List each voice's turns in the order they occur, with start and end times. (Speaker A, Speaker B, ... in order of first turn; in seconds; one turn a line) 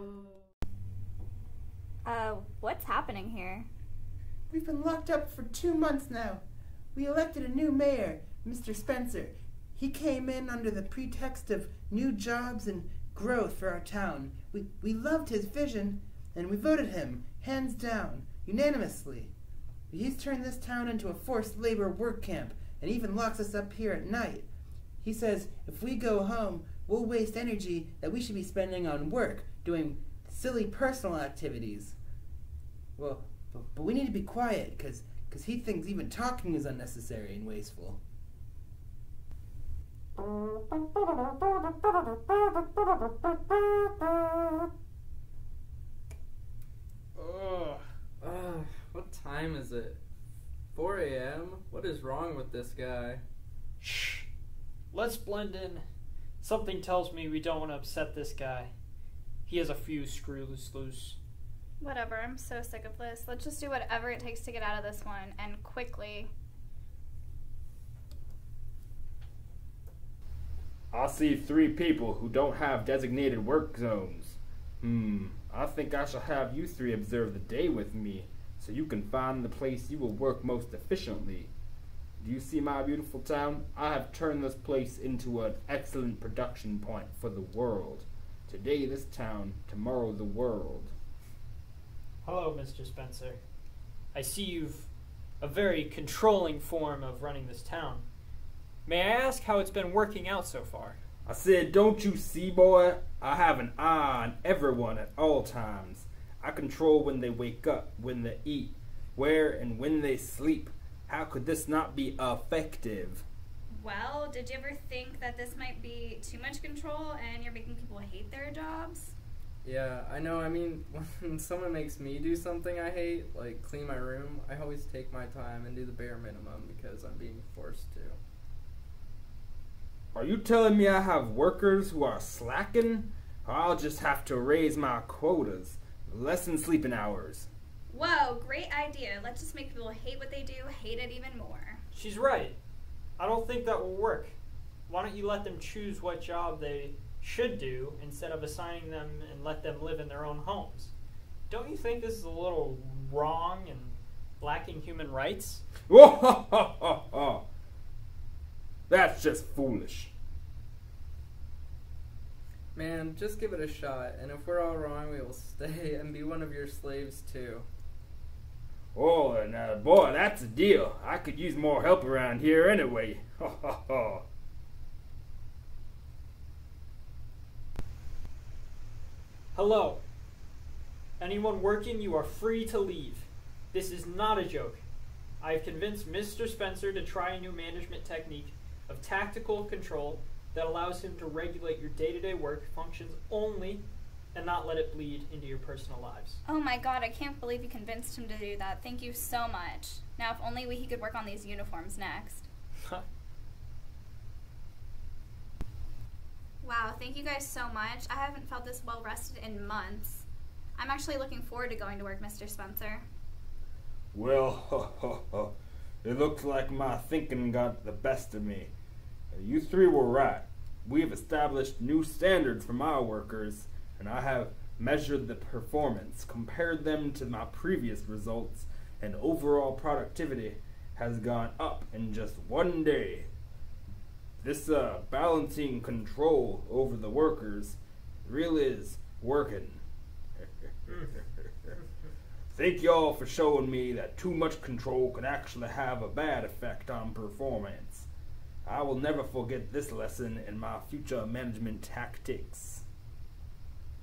Speaker A: 2.0-3.7
Speaker B: 4.5-6.4
Speaker B: 6.9-19.3
Speaker B: 19.9-24.5
Speaker B: 25.0-32.0
Speaker B: 33.0-38.0
Speaker C: 40.2-42.4
Speaker C: 47.2-50.0
Speaker C: 50.7-53.2
Speaker D: 53.8-54.3
Speaker D: 54.9-55.8
Speaker D: 56.4-58.7
Speaker D: 59.5-61.2
Speaker A: 61.8-66.3
Speaker E: 70.9-81.5
Speaker E: 82.2-90.9
Speaker D: 92.2-93.4
Speaker D: 94.1-94.9
Speaker D: 95.4-98.0
Speaker D: 98.8-101.0
Speaker E: 101.2-113.2
Speaker A: 113.7-119.1
Speaker C: 119.6-128.2
Speaker E: 130.1-137.5
Speaker A: 137.9-141.8
Speaker D: 141.9-142.6
Speaker D: 143.2-144.3
Speaker D: 144.9-150.9
Speaker D: 151.5-155.6
Speaker E: 155.9-157.4
Speaker E: 158.9-160.1
Speaker C: 162.7-167.7
Speaker E: 168.9-174.2
Speaker D: 179.5-180.0
Speaker D: 181.2-184.8
Speaker D: 185.4-193.8
Speaker D: 194.3-196.4
Speaker A: 196.5-202.5
Speaker A: 206.6-210.2
Speaker A: 210.8-213.0
Speaker E: 214.1-218.7
Speaker E: 219.3-233.3
Speaker E: 234.4-239.8
Speaker E: 240.4-241.8
Speaker E: 242.5-248.1
Speaker E: 248.6-252.8